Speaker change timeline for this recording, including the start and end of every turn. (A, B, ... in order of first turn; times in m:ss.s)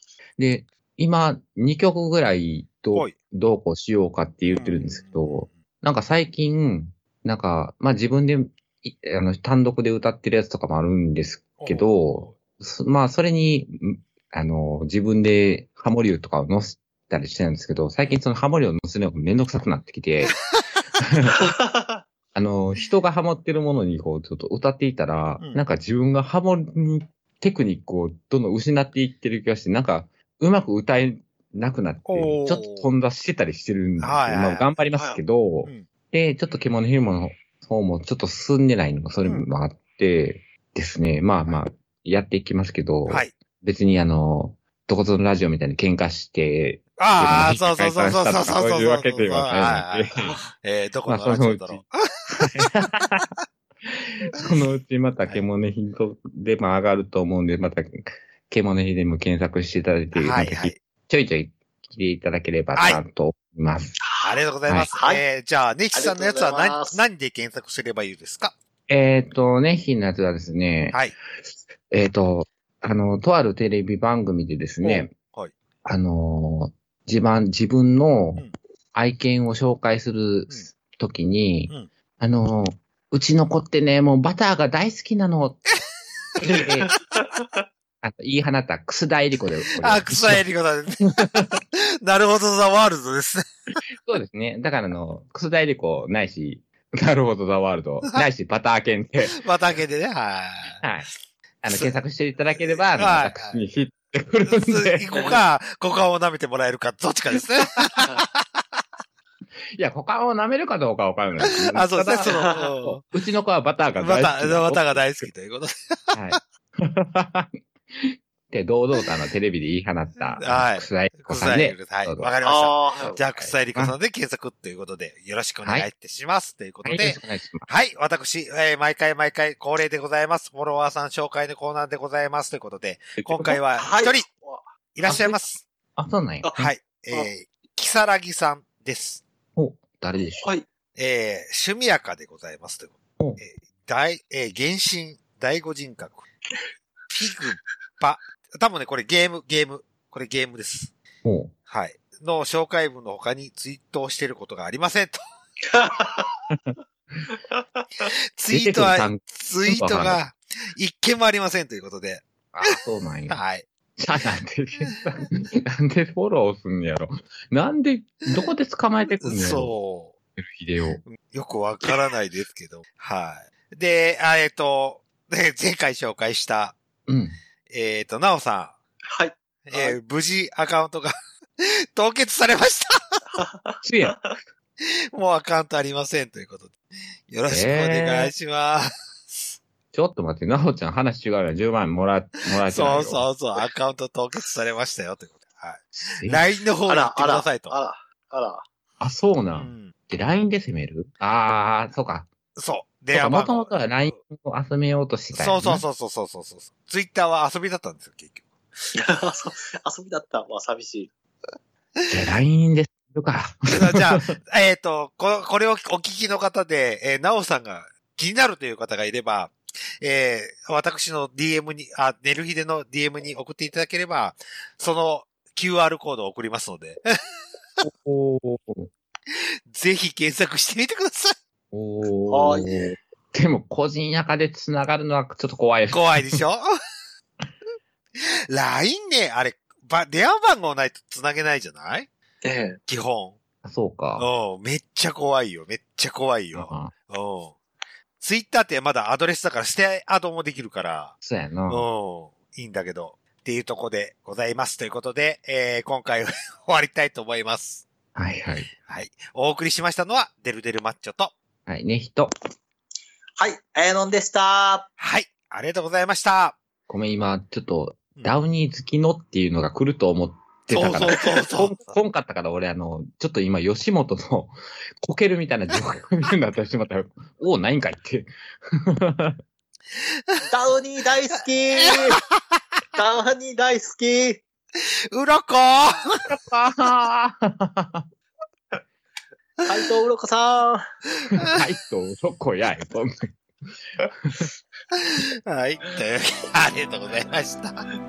0:00.4-0:20.4 A
0:04.5-0:05.6 B
0:11.6-0:12.4 B
0:21.0-0:21.5 A
0:21.3-0:22.0 C
0:22.3-0:50.4 A
0:32.0-0:32.9 B
0:34.0-0:34.7 B
0:34.9-0:35.2 C
0:43.1-0:43.3 B
0:47.0-0:53.2 B
0:51.1-0:51.8 A
0:52.4-0:53.2 A
0:53.8-1:04.0 A
1:00.1-1:00.8 B
1:02.7-1:03.0 B
1:04.0-1:05.2 C
1:04.2-1:08.5 B
1:05.9-1:07.0 C
1:08.9-1:11.0 A
1:11.9-1:15.1 A
1:14.8-1:15.5 B
1:15.8-1:25.6 A
1:26.4-1:26.9 A
1:27.2-1:27.5 C
1:28.0-1:30.4 A
1:29.8-1:33.4 B
1:31.2-1:31.6 A
1:34.0-1:39.4 A
1:39.2-1:40.8 B
1:40.8-1:41.1 A
1:41.6-1:45.4 A
1:41.7-1:42.0 B
1:42.6-1:43.6 B
1:44.4-1:48.8 B
1:49.7-1:55.2 A
1:51.7-1:53.0 B
1:54.0-1:56.4 B
1:56.1-2:02.3 A
2:00.2-2:14.3 B
2:02.4-2:03.2 C
2:03.0-2:04.0 A
2:06.8-2:07.7 A
2:13.2-2:13.6 A
2:13.8-2:14.6 C
2:14.9-2:15.6 B
2:15.0-2:15.4 A
2:16.0-2:16.7 A
2:16.4-2:17.3 C
2:16.6-2:19.2 B
2:19.6-2:20.5 A
2:20.2-2:20.6 C
2:20.9-2:26.2 B
2:27.1-2:30.9 B
2:31.2-2:31.5 A
2:31.7-2:35.2 B
2:35.7-2:36.3 C
2:37.5-2:38.0 C
2:38.0-2:42.2 B
2:38.5-2:40.2 A
2:42.5-2:43.4 A
2:43.3-2:43.6 B
2:44.0-2:49.7 A
2:49.2-2:50.1 B
2:50.4-2:51.0 A
2:51.0-2:56.8 B
2:57.1-2:57.4 A
2:57.7-2:58.7 B
2:59.0-3:00.0 C
2:59.7-3:03.2 B
3:03.3-3:04.4 C
3:03.8-3:04.2 A
3:04.8-3:06.8 B
3:07.3-3:09.4 B
3:07.5-3:08.3 A
3:09.9-3:13.2 A
3:12.6-3:17.8 B
3:16.0-3:16.4 A
3:16.9-3:18.6 C
3:19.0-3:22.3 A
3:19.5-3:19.9 B
3:22.5-3:24.1 B
3:23.1-3:25.8 A
3:25.3-3:28.5 B
3:28.9-3:31.1 C
3:32.1-3:34.3 A
3:33.7-3:47.0 B
3:47.8-3:48.9 A
3:49.3-3:51.4 B
3:51.7-3:56.4 A
3:52.3-3:52.9 C
3:55.9-3:56.6 B
3:58.2-4:02.1 B
4:02.4-4:02.8 C
4:02.9-4:03.4 B
4:03.6-4:04.3 A
4:04.2-4:07.6 B
4:06.5-4:06.9 A
4:08.2-4:11.1 B
4:11.2-4:11.8 A
4:11.7-4:17.8 B
4:18.1-4:18.7 A
4:18.8-4:21.3 B
4:21.7-4:22.3 A
4:23.4-4:24.9 C
4:25.0-4:26.6 B
4:26.9-4:39.4 A
4:30.7-4:32.0 B
4:40.5-4:42.2 C
4:41.8-4:42.1 B
4:42.9-4:44.4 C
4:44.8-4:46.3 B
4:46.3-4:48.1 A
4:49.6-4:50.9 C
4:51.4-4:53.4 A
4:54.2-4:54.5 A
4:54.9-4:57.8 B